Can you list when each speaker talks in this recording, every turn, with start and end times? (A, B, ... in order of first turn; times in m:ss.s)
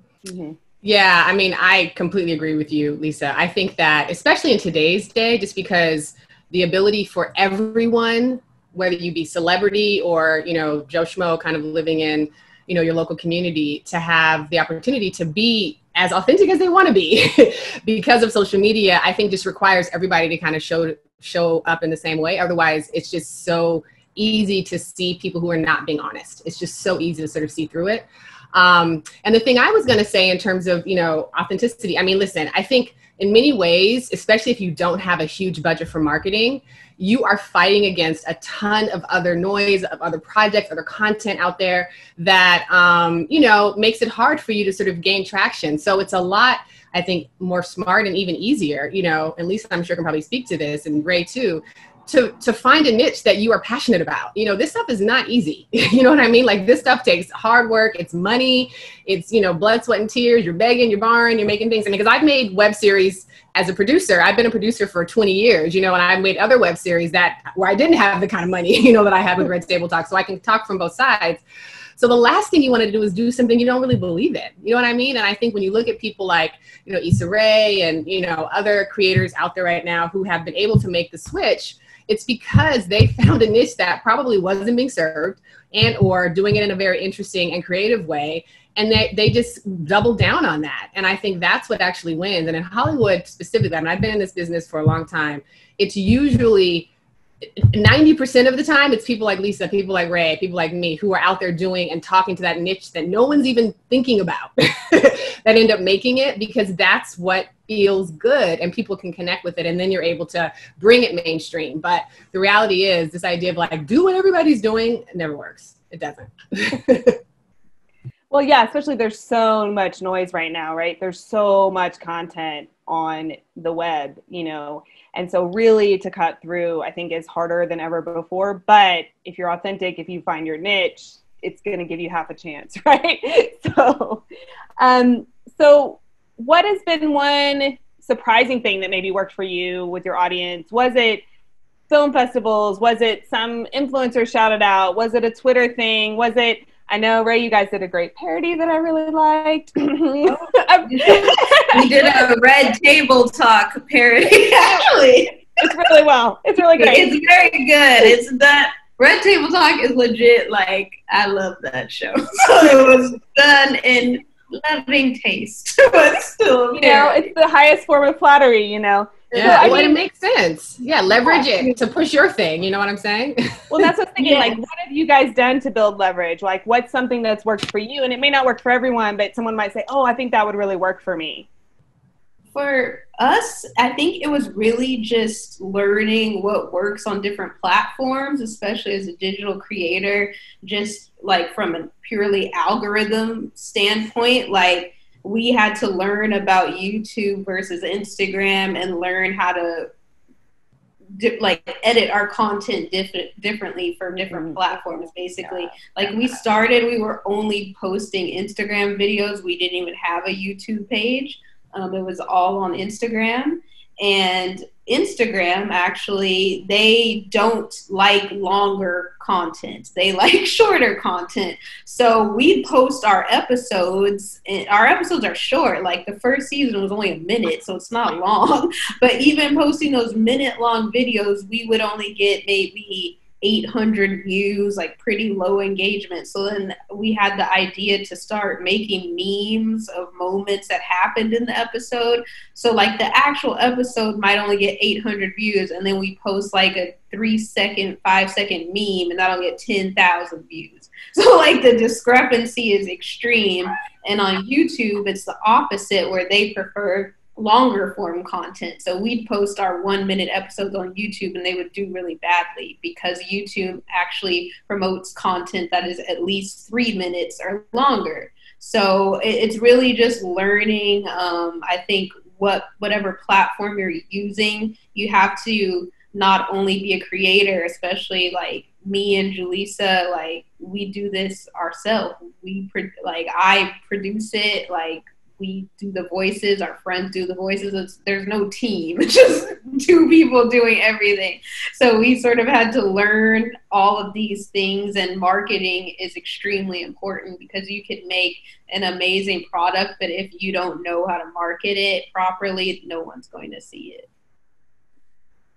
0:00.2-0:00.6 A
0:00.8-1:11.4 B
1:12.0-1:36.9 B
1:37.6-1:57.2 B
1:58.3-2:14.2 A
2:14.8-2:21.2 A
2:21.9-2:32.2 A
2:30.9-2:35.7 C
2:35.6-2:37.1 A
2:36.8-2:47.2 C
2:46.7-2:50.0 A
2:49.3-2:49.9 C
2:49.3-2:53.9 B
2:53.7-3:01.5 A
2:54.2-2:54.5 C
3:02.5-3:19.9 C
3:21.2-5:04.1 C
3:24.3-3:24.6 A